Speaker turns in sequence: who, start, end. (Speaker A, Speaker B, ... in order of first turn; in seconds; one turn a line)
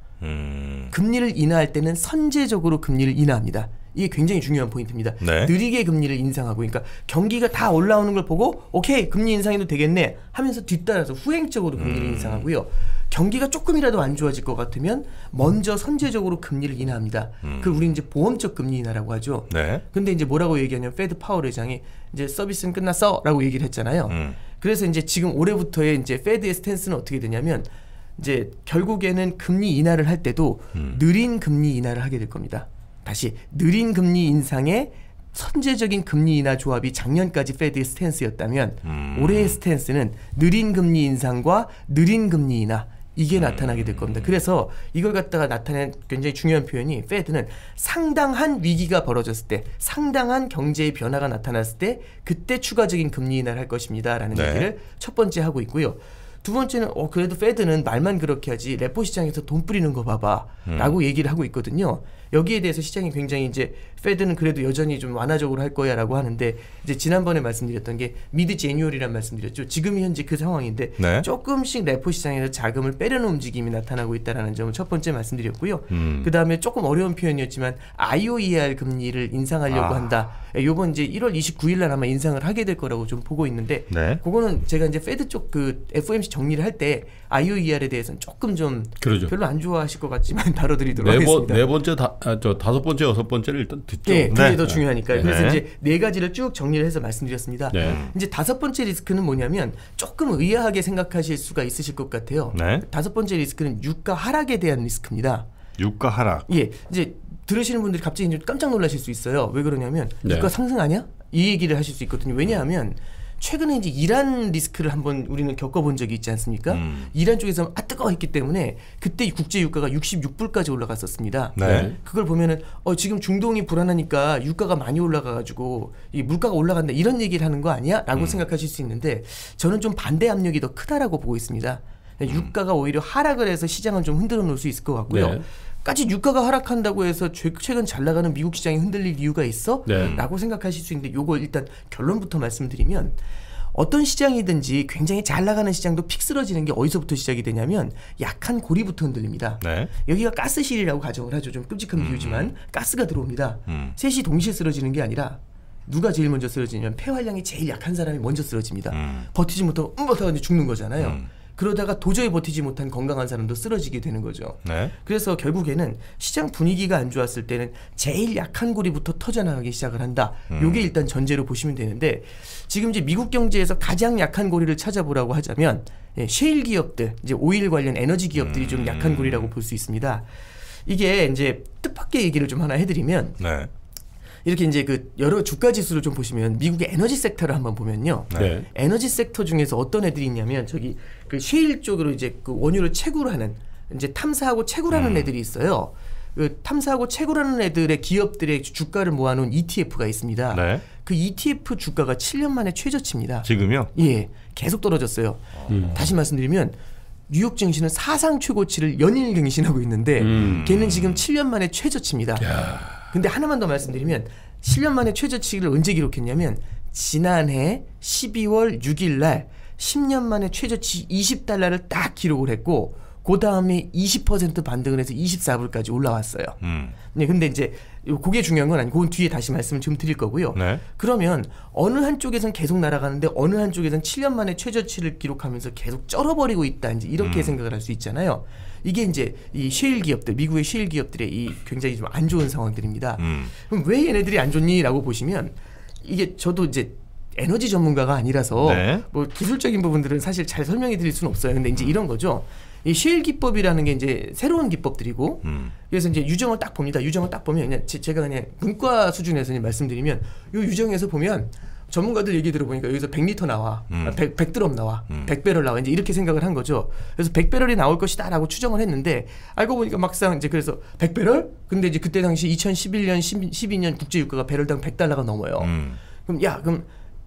Speaker A: 0.2-0.9
Speaker B: 0.9-91.6
Speaker A: 5.2-5.5
Speaker A: 11.8-12.5
Speaker A: 17.4-17.8
Speaker A: 19.5-19.8
Speaker A: 24.1-24.4
Speaker A: 38.8-39.6
Speaker A: 43.4-44.3
Speaker A: 54.3-54.7
Speaker A: 60.6-61.0
Speaker A: 71.0-71.3
Speaker A: 75.9-76.3
Speaker A: 79.7-80.1
Speaker A: 83.9-84.2
Speaker C: 89.0-89.3
Speaker C: 91.0-95.3
Speaker B: 94.0-105.5
Speaker A: 94.3-95.6
Speaker C: 97.7-98.0
Speaker A: 97.8-98.1
Speaker A: 102.5-102.8
Speaker A: 105.8-106.5
Speaker B: 106.5-143.2
Speaker C: 110.2-110.5
Speaker A: 116.7-117.1
Speaker A: 121.5-121.9
Speaker C: 121.6-122.0
Speaker A: 128.1-128.4
Speaker C: 135.1-135.4
Speaker C: 139.8-140.2
Speaker B: 143.7-180.3
Speaker A: 149.6-149.9
Speaker A: 151.9-152.5
Speaker A: 153.7-153.9
Speaker A: 158.9-159.3
Speaker A: 161.0-161.3
Speaker A: 164.6-164.9
Speaker A: 170.5-170.9
Speaker A: 178.4-179.5
Speaker B: 180.8-183.4
Speaker A: 183.4-183.7
Speaker B: 184.4-206.8
Speaker A: 188.3-188.6
Speaker C: 188.3-188.7
Speaker A: 194.9-195.3
Speaker A: 200.5-200.8
Speaker A: 203.4-203.9
Speaker C: 205.7-206.0
Speaker B: 207.3-212.5
Speaker C: 210.2-210.7
Speaker A: 210.4-211.2
Speaker C: 212.4-213.1
Speaker B: 213.1-226.6
Speaker A: 226.6-226.9
Speaker B: 227.1-276.9
Speaker A: 230.5-230.8
Speaker A: 237.2-237.6
Speaker A: 243.2-243.5
Speaker A: 248.6-249.0
Speaker A: 255.4-255.7
Speaker A: 263.9-264.2
Speaker A: 275.6-276.0